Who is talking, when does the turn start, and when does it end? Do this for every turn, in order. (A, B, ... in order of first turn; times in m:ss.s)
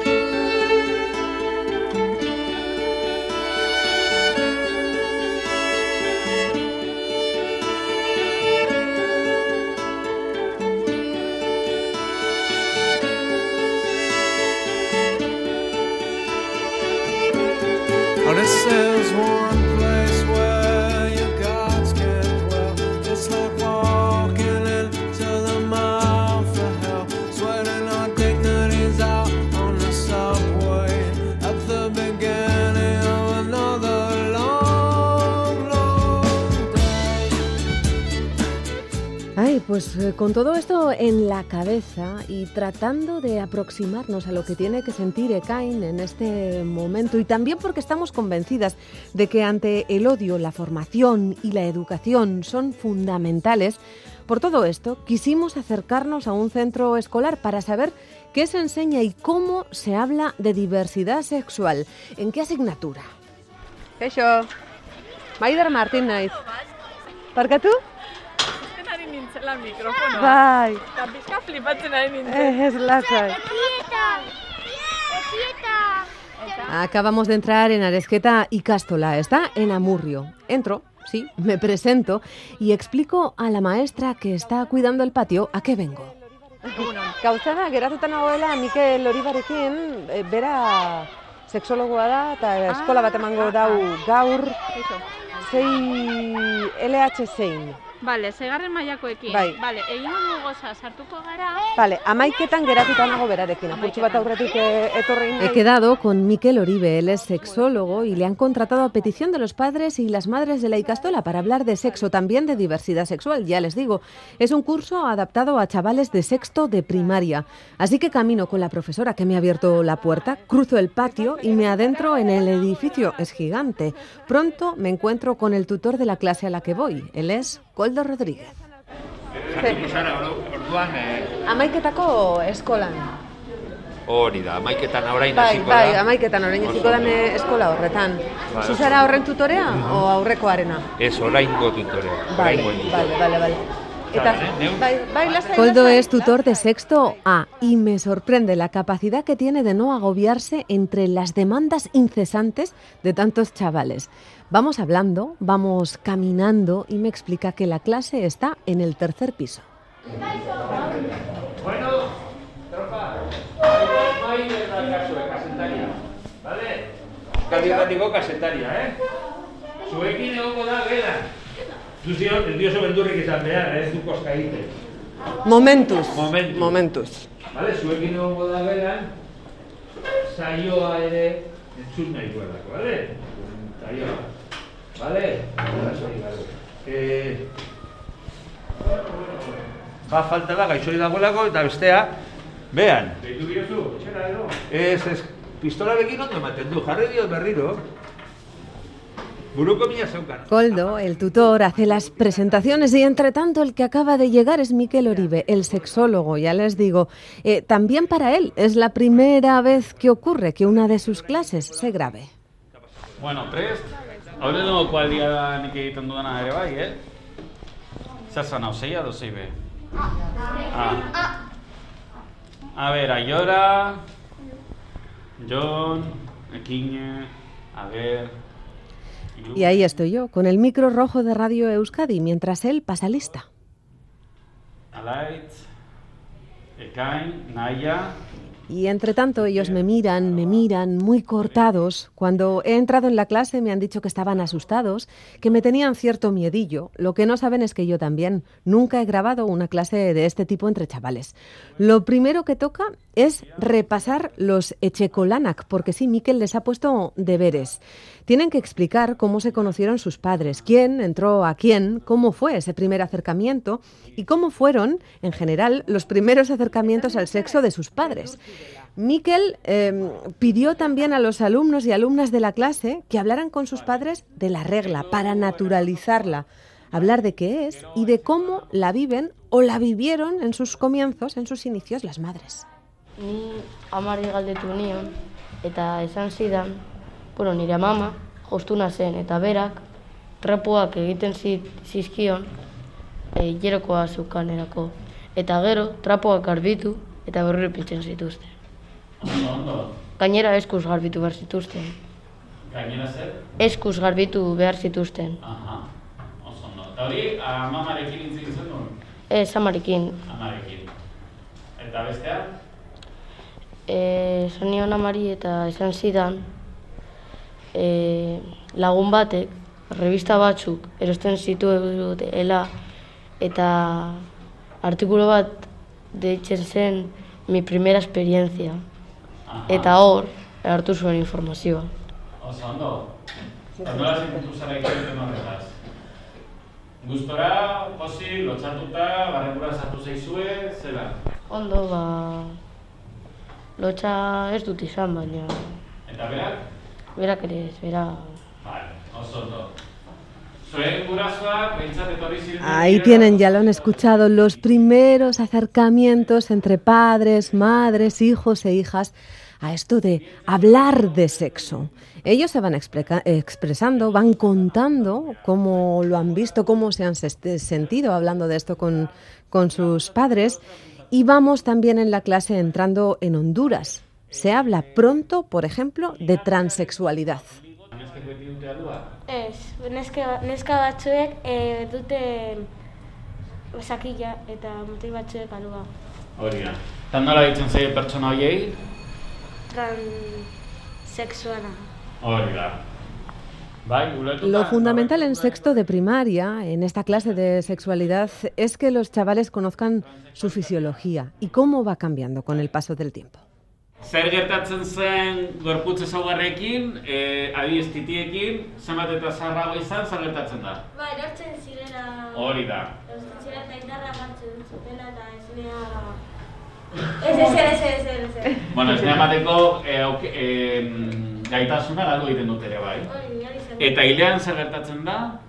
0:18.2-0:37.3 A
0:39.4-1:03.1 B
1:04.0-1:04.5 B
1:05.4-1:06.4 B
1:07.3-1:07.8 B
1:08.7-1:10.4 C
1:10.1-1:10.8 B
1:10.9-1:13.0 C
1:12.2-1:13.4 B
1:15.1-1:16.0 C
1:16.6-1:26.1 B
1:26.7-1:34.6 B
1:26.8-1:27.1 C
1:32.7-1:33.9 C
1:34.7-1:35.0 C
1:35.4-1:37.8 B
1:38.0-1:41.7 C
1:39.3-1:39.6 B
1:41.8-2:08.6 B
1:43.7-1:44.5 C
2:09.5-2:11.3 D
2:11.4-2:13.1 B
2:14.0-2:16.0 D
2:15.3-2:20.8 B
2:16.6-2:17.2 D
2:18.5-2:19.1 D
2:19.7-2:20.0 D
2:21.0-2:23.2 D
2:22.3-2:23.6 B
2:24.1-2:26.1 D
2:24.2-2:39.6 B
2:41.6-2:42.1 D
2:42.7-2:46.8 D
2:47.5-2:48.9 D
2:49.8-2:51.2 D
2:52.0-2:54.7 D
2:55.4-2:57.2 B
2:56.1-2:56.8 D
2:57.5-2:59.0 D
3:00.3-3:04.2 D
3:05.0-3:07.4 D
3:10.1-3:12.1 D
3:12.7-3:17.8 D
3:19.5-3:21.0 D
3:20.5-3:32.3 B
3:33.2-3:37.0 E
3:38.3-3:39.5 E
3:40.7-3:41.1 E
3:42.7-3:44.0 E
3:45.4-3:48.3 E
3:49.4-3:49.8 E
3:49.5-3:53.5 B
3:54.9-3:55.6 E
3:56.8-3:58.2 E
3:58.7-4:28.4 B
4:29.0-4:42.6 B
4:43.2-4:46.8 F
4:47.3-4:49.8 F
4:50.4-4:52.5 F
4:53.3-4:58.5 F
4:59.2-4:59.9 E
5:00.2-5:02.0 F
5:02.7-5:03.4 E
5:03.6-5:05.4 F
5:05.4-5:05.8 E
5:06.4-5:08.9 E
5:09.3-5:10.2 F
5:10.3-5:10.9 E
5:11.8-5:12.5 E
5:13.9-5:16.5 F
5:17.7-5:22.7 F
5:23.4-5:24.2 F
5:24.8-5:28.8 F
5:29.5-5:29.9 E
5:29.7-5:31.9 F
5:32.4-5:33.1 E
5:33.8-5:35.8 E
5:33.8-5:34.4 B
5:37.0-5:41.2 E
5:41.5-5:42.6 F
5:43.8-5:45.8 F
5:46.1-5:46.6 E
5:47.2-5:48.4 F
5:48.6-5:49.7 E
5:50.6-5:54.3 E
5:52.6-6:10.6 B
6:00.4-6:01.0 E
6:11.1-6:17.6 B
6:17.8-6:19.1 E
6:19.3-6:22.7 G
6:23.7-6:25.9 G
6:26.4-6:28.8 E
6:29.7-6:30.5 G
6:31.0-6:31.9 G
6:32.2-6:32.8 E
6:33.8-6:35.8 E
6:34.4-6:43.4 B
6:40.3-6:40.9 E
6:44.0-6:50.8 E
6:50.9-6:52.5 G
6:52.3-6:52.9 E
6:53.1-6:56.2 G
6:57.2-6:58.7 G
6:57.2-6:57.6 E
6:58.7-7:03.1 E
7:03.0-7:04.0 G
7:03.8-7:05.4 E